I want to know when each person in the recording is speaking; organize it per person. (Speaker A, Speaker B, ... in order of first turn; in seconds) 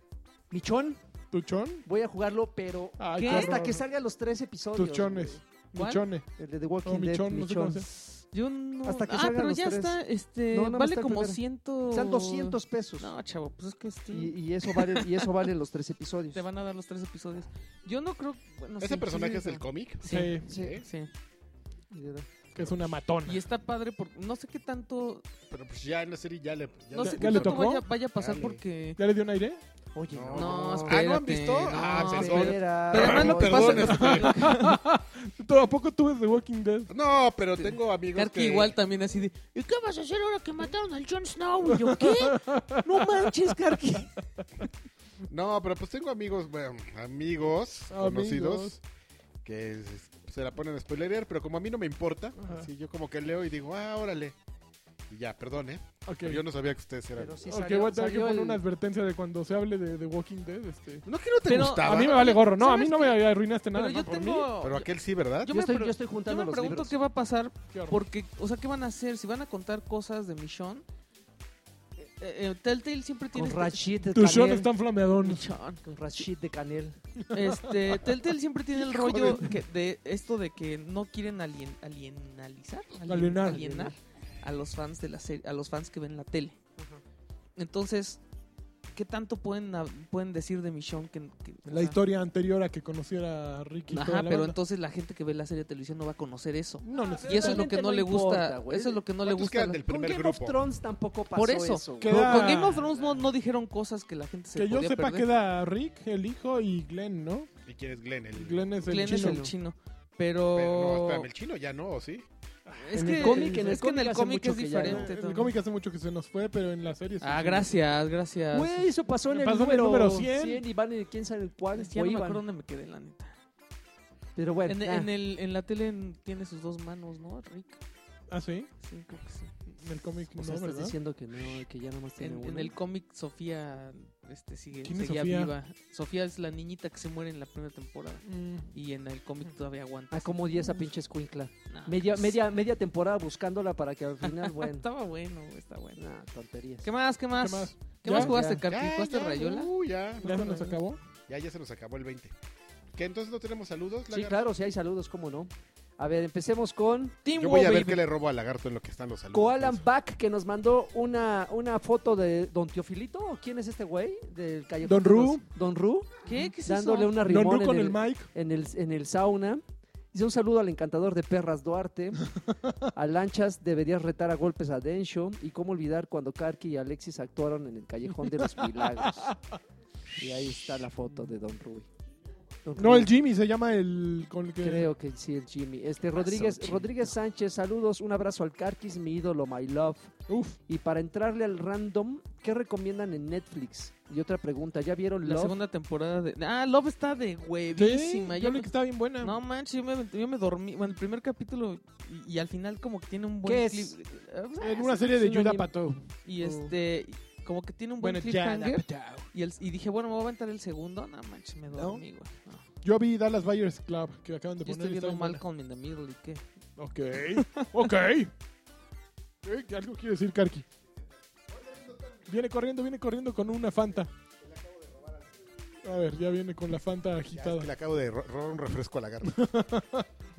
Speaker A: 0.5-1.0, 1.9-5.4, 6.4-7.9, 8.8-10.0, 10.5-13.1, 14.1-16.4, 20.5-20.8, 21.9-22.3, 29.9-31.0, 31.7-34.2, 57.2-58.6, 65.5-67.0, 73.3-74.7, 75.8-77.0, 83.5-84.0, 96.9-99.0, 99.8-103.2, 109.0-109.5, 112.9-115.1, 118.5-122.4, 124.4-125.1, 130.3-132.8, 140.1-144.8, 146.0-146.9, 148.1-148.6, 150.2-150.8, 154.1-157.2, 159.3-166.1, 166.6-172.3, 172.9-179.4, 180.2-181.9, 182.7-183.1, 184.6-190.1, 190.7-195.6, 203.4-204.0, 205.0-205.7
Speaker B: 1.3-1.9, 3.0-3.8, 4.8-6.3, 6.8-7.9, 20.1-20.5, 22.6-23.4, 27.0-27.8, 29.0-29.6, 33.7-36.9, 41.8-42.8, 47.9-48.8, 52.4-52.7, 56.1-56.5, 57.4-61.0, 61.8-64.5, 67.7-68.0, 74.1-75.5, 77.3-77.8, 83.1-83.9, 91.7-94.6, 96.8-97.6, 102.0-102.9, 104.5-107.5, 108.3-109.5, 112.7-113.8, 114.8-117.7, 119.3-120.6, 128.3-128.7, 129.7-131.0, 134.8-135.5, 138.3-138.7, 147.4-148.3, 150.2-151.0, 164.8-165.4, 167.2-168.3, 178.6-179.4, 182.8-184.9, 190.3-190.6, 197.8-199.4, 204.6-206.7, 208.0-209.3, 211.7-212.0, 212.8-215.4, 216.8-218.3, 219.4-220.7, 222.3-224.1, 225.8-227.7, 229.2-230.1
Speaker C: 3.1-3.5, 5.7-6.0, 8.3-15.3, 16.3-21.1, 23.2-25.2, 26.9-29.0, 30.3-34.8, 37.6-44.1, 61.5-63.2, 63.7-64.9, 65.4-70.8, 72.0-73.8, 75.2-75.8, 77.3-86.6, 87.6-88.2, 88.9-92.0, 93.9-99.8, 101.3-105.3, 108.8-111.3, 112.8-115.5, 117.2-118.9, 121.8-123.3, 124.7-127.8, 128.8-129.5, 132.2-140.8, 141.7-142.3, 144.2-146.0, 146.8-149.7, 150.3-150.6, 157.2-158.0, 166.2-167.2, 186.1-186.9, 195.2-205.1, 206.2-212.6, 214.6-216.4, 217.3-217.7
Speaker D: 18.8-20.9, 22.6-23.0, 25.5-28.6, 30.1-34.4, 36.9-38.8, 45.3-48.8, 49.4-54.4, 55.1-57.4, 61.0-62.4, 64.6-65.6, 78.8-79.5, 99.2-100.6, 107.7-108.7, 110.5-112.3, 148.7-150.3, 151.3-152.3, 152.9-154.5, 157.3-159.8, 221.0-222.3, 224.4-225.8, 227.3-229.4